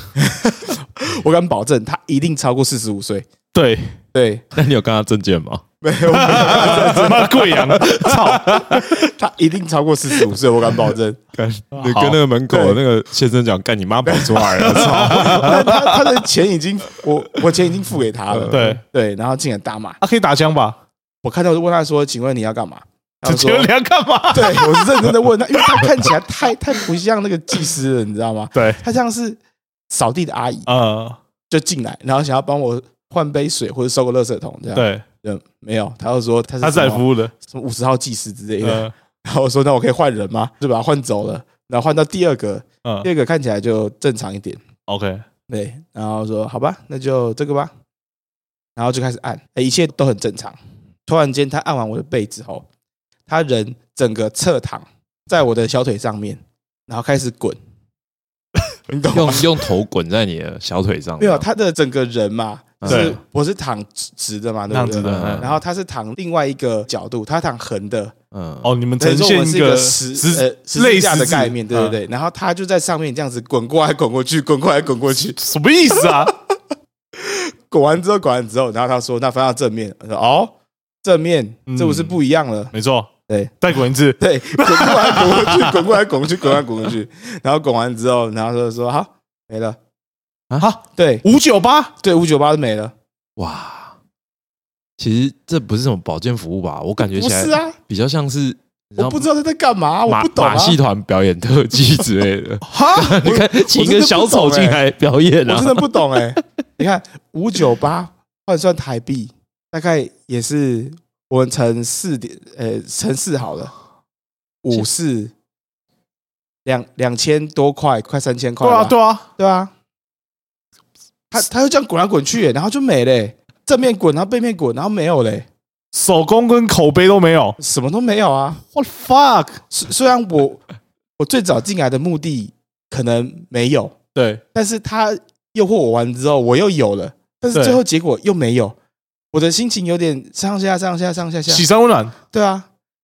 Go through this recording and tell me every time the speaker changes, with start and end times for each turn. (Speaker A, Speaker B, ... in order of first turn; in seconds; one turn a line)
Speaker A: 0.1-3.3
Speaker B: 3.5-4.0
Speaker A: 4.1-4.4
Speaker C: 4.5-5.6
Speaker A: 5.8-11.2
Speaker B: 6.1-8.9
Speaker C: 6.3-7.7
Speaker C: 11.3-15.9
Speaker B: 11.7-12.2
Speaker A: 12.5-12.8
Speaker A: 14.1-20.0
Speaker B: 14.6-16.0
Speaker C: 18.3-18.8
Speaker B: 18.5-18.8
Speaker B: 20.0-20.8
Speaker A: 21.2-23.7
Speaker B: 23.2-25.9
Speaker A: 24.3-30.7
Speaker B: 28.5-28.8
Speaker B: 30.7-31.2
Speaker A: 31.5-44.6
Speaker B: 34.7-35.0
Speaker B: 36.6-37.3
Speaker B: 38.6-38.9
Speaker B: 44.9-45.2
Speaker A: 45.5-47.7
Speaker A: 48.8-52.6
Speaker A: 53.3-57.6
Speaker A: 58.9-59.5
Speaker C: 59.1-61.4
Speaker A: 61.2-68.1
Speaker C: 62.8-63.1
Speaker B: 62.9-63.2
Speaker B: 64.7-65.5
Speaker C: 65.0-65.6
Speaker C: 68.3-68.7
Speaker B: 68.6-72.0
Speaker A: 69.0-75.4
Speaker B: 75.4-76.3
Speaker A: 76.0-76.3
Speaker A: 77.2-82.7
Speaker B: 81.7-82.2
Speaker B: 82.7-85.8
Speaker A: 83.3-83.5
Speaker A: 84.2-89.8
Speaker B: 90.6-91.9
Speaker A: 90.9-91.2
Speaker A: 92.0-92.9
Speaker C: 93.4-94.0
Speaker C: 95.0-99.2
Speaker A: 97.1-97.8
Speaker A: 99.0-100.8
Speaker C: 100.1-106.4
Speaker B: 102.7-103.1
Speaker A: 102.7-104.8
Speaker A: 105.5-113.7
Speaker A: 114.6-115.3
Speaker A: 116.6-119.7
Speaker B: 118.6-119.3
Speaker A: 121.3-125.5
Speaker B: 125.9-127.6
Speaker A: 127.6-128.6
Speaker B: 128.7-129.6
Speaker A: 129.7-130.6
Speaker A: 131.2-133.9
Speaker B: 134.1-134.4
Speaker A: 134.5-138.7
Speaker B: 137.5-137.8
Speaker A: 139.3-141.6
Speaker B: 141.5-142.1
Speaker A: 142.3-142.7